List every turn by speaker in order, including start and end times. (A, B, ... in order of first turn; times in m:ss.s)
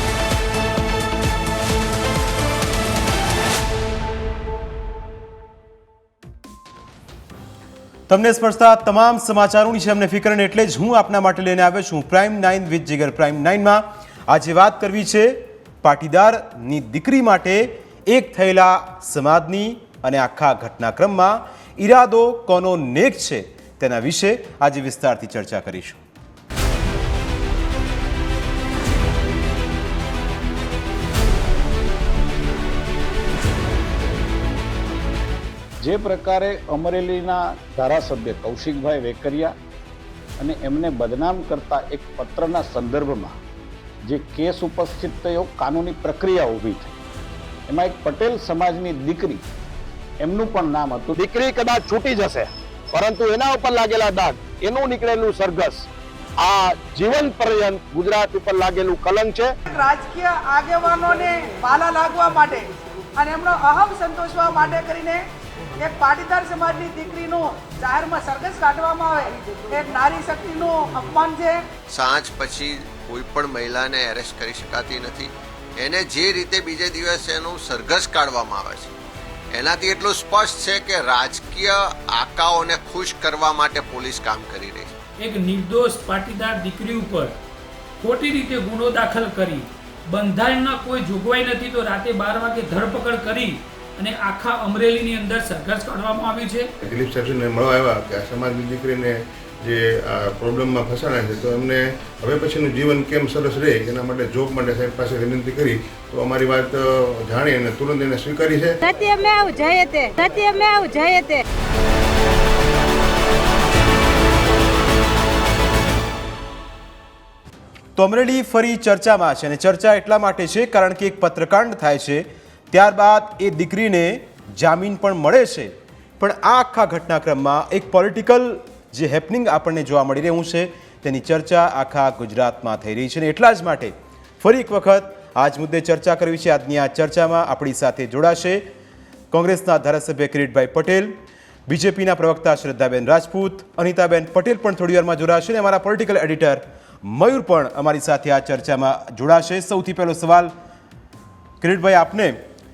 0:08.1-0:26.0 A
0:35.8-0:39.5 B
0:40.4-0:43.4 B
0:44.0-0:46.9 B
0:47.7-0:49.4 B
0:50.2-0:51.1 B
0:51.1-0:55.8 C
0:56.4-0:59.5 C
0:59.7-1:11.7 D
1:11.9-1:18.9 E
1:19.5-1:24.9 E
1:25.2-1:27.3 F
1:28.0-1:36.7 F
1:36.8-1:39.1 G
1:40.3-1:48.7 G
1:48.8-1:51.4 H
1:58.0-2:18.6 A
2:19.3-2:21.2 A
2:21.7-2:30.5 A
2:31.6-2:32.4 A